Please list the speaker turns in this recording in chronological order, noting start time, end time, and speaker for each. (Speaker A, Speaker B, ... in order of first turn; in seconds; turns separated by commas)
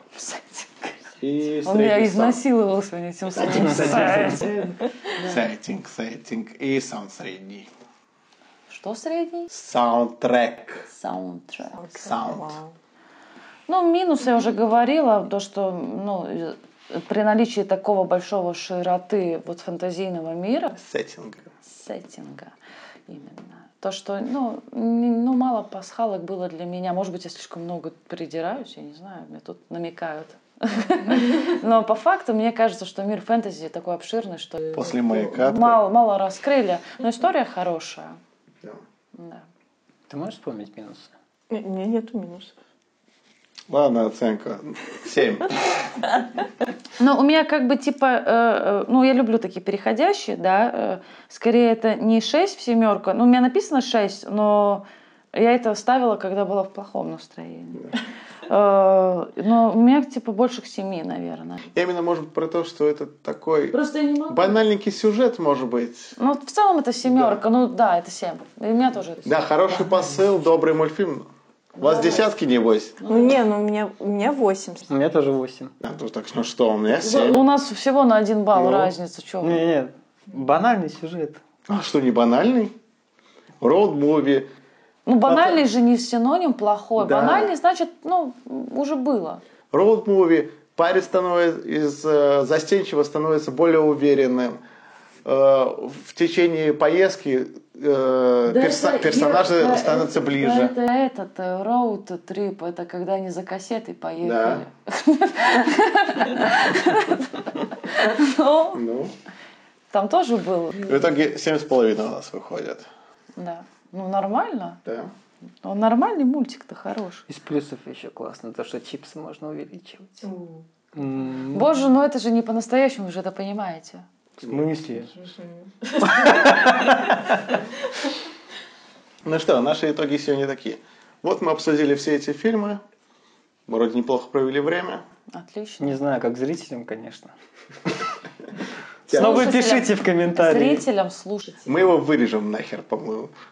Speaker A: 0.1-1.1, Speaker B: 1.2-2.4, Speaker A: 1.6-5.4, Speaker B: 3.4-4.5, Speaker C: 3.5-4.5, Speaker B: 5.2-7.7, Speaker A: 8.7-9.5, Speaker B: 9.5-10.8, Speaker A: 10.8-11.8, Speaker D: 11.7-12.7, Speaker B: 12.0-12.6, Speaker A: 13.7-20.7, Speaker B: 20.7-21.5, Speaker A: 21.6-22.5, Speaker A: 23.1-38.2, Speaker B: 34.7-35.8, Speaker A: 39.1-39.4, Speaker C: 40.1-41.1, Speaker D: 41.5-42.5, Speaker B: 43.7-45.6, Speaker A: 47.0-57.9, Speaker A: 58.5-61.6, Speaker B: 61.7-63.8, Speaker A: 63.7-64.6, Speaker B: 64.3-66.2, Speaker A: 66.2-69.3, Speaker B: 67.1-67.4, Speaker B: 69.2-71.3, Speaker A: 71.8-72.3, Speaker B: 71.8-73.0, Speaker A: 73.0-73.3, Speaker D: 73.0-74.9, Speaker C: 74.9-75.7, Speaker B: 75.8-77.4, Speaker A: 76.9-79.6, Speaker B: 78.5-78.9, Speaker C: 79.4-81.4, Speaker B: 81.7-82.7, Speaker B: 83.6-84.5, Speaker A: 85.0-89.4, Speaker B: 85.2-85.6, Speaker B: 87.0-87.5, Speaker B: 89.7-94.6, Speaker B: 95.2-100.7, Speaker A: 98.5-108.8, Speaker B: 104.2-104.6, Speaker B: 108.7-109.1, Speaker A: 109.9-111.1, Speaker B: 110.8-112.9, Speaker A: 113.4-114.8, Speaker B: 114.8-115.1, Speaker A: 115.6-117.2, Speaker C: 117.3-120.2, Speaker D: 120.2-120.7, Speaker C: 120.9-121.7, Speaker A: 121.5-124.0, Speaker C: 124.4-125.1, Speaker D: 125.2-126.5, Speaker C: 126.0-127.4, Speaker B: 129.2-132.8, Speaker B: 133.7-135.0, Speaker A: 135.3-136.0, Speaker C: 135.8-137.3, Speaker B: 139.1-139.5, Speaker C: 139.1-140.8, Speaker A: 139.1-141.8, Speaker B: 141.6-143.3